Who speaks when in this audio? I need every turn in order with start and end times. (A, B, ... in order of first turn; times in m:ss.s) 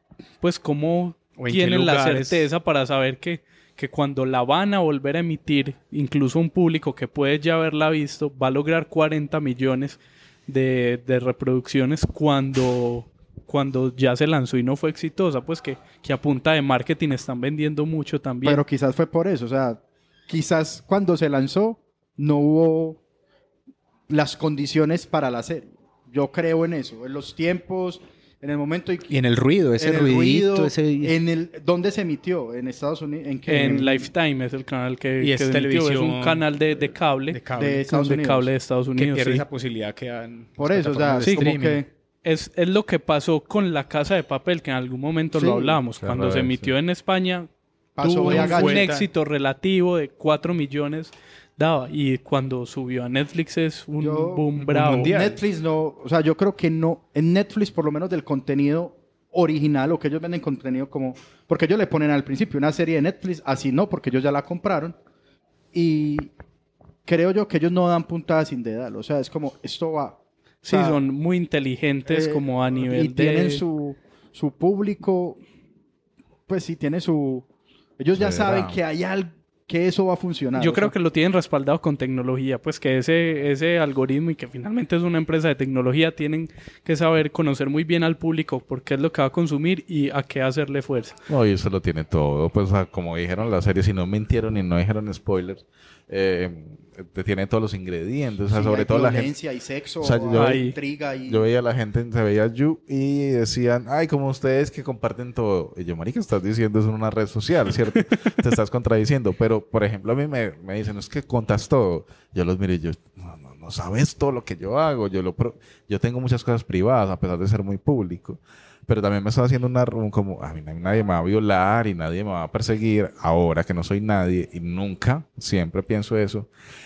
0:00.4-0:18.6 A
0:01.4-0:02.5 B
0:18.4-0:23.0 C
0:24.1-0:29.1 C
0:29.1-0:31.2 B
0:29.8-0:34.1 C
0:33.5-0:37.4 A
0:35.2-0:37.9 B
0:37.6-0:38.5 C
0:37.9-0:39.4 A
0:38.9-0:41.8 B
0:40.6-0:41.8 C
0:41.2-0:41.5 A
0:42.2-0:47.5 A
0:45.3-0:45.8 C
0:46.0-0:46.8 D
0:48.0-0:48.8 C
0:48.0-0:55.1 A
0:48.2-0:49.1 B
0:54.0-1:05.0 C
0:54.6-0:55.4 B
1:05.7-1:06.3 C
1:07.0-1:11.0 C
1:10.6-1:13.6 A
1:12.0-1:15.4 C
1:16.5-1:17.5 C
1:18.0-1:20.9 C
1:18.1-1:18.8 D
1:20.6-1:31.2 A
1:31.3-1:39.4 D
1:38.5-1:41.4 C
1:40.0-2:06.5 D
1:40.3-1:40.8 A